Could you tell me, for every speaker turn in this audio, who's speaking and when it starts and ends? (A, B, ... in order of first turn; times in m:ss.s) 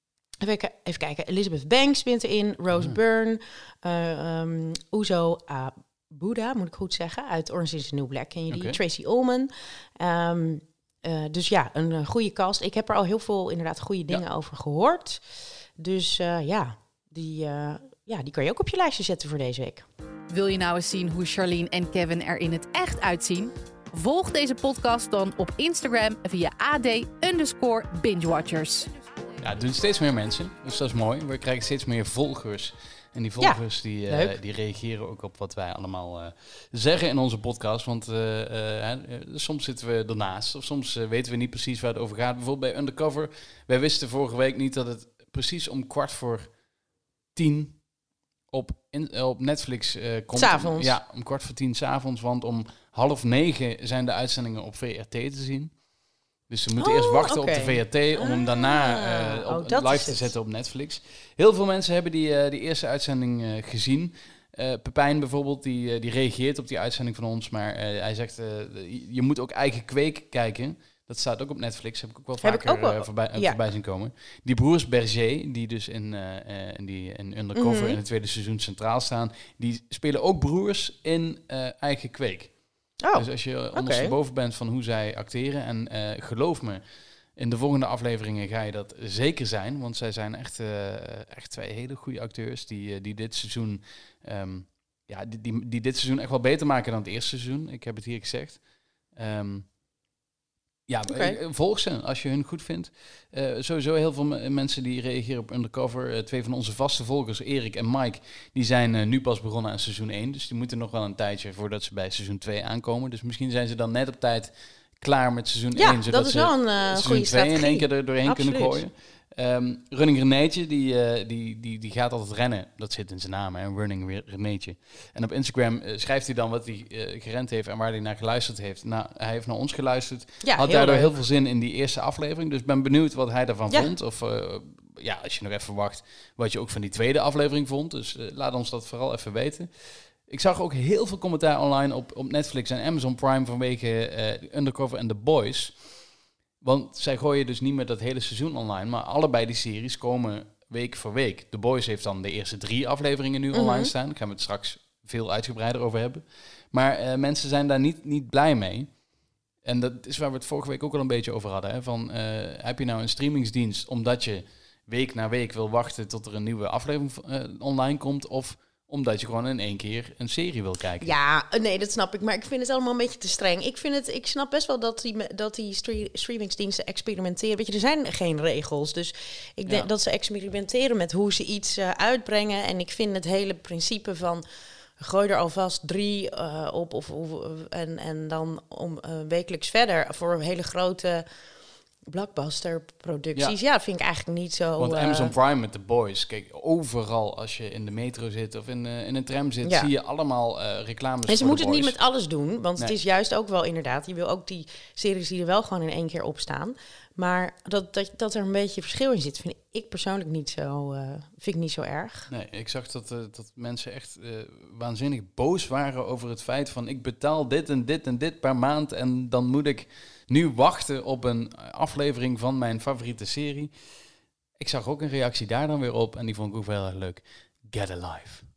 0:00.4-0:19.8 A
0:02.7-0:03.0 B
0:08.5-0:08.8 B
0:20.3-0:28.9 C
0:29.4-0:46.5 B
0:33.4-0:34.4 A
0:47.4-0:47.8 B
0:48.5-0:55.8 B
0:50.4-0:51.0 A
0:56.5-1:22.6 B
0:56.8-1:00.3 A
1:12.4-1:13.6 A
1:17.6-1:18.0 A
1:23.0-1:24.1 A
1:23.1-1:26.8 B
1:27.4-1:38.6 B
1:39.2-1:39.7 B
1:40.9-2:25.8 B
1:41.1-1:41.4 A
1:55.8-1:58.8 A
2:10.4-2:11.2 A
2:26.6-2:38.9 B
2:33.5-2:33.9 A
2:39.6-2:51.1 B
2:51.0-3:04.4 A
3:05.0-3:11.3 A
3:12.1-3:15.4 A
3:14.8-3:22.0 B
3:19.6-3:19.9 A
3:21.3-3:32.3 A
3:32.3-3:43.7 B
3:44.6-3:48.5 B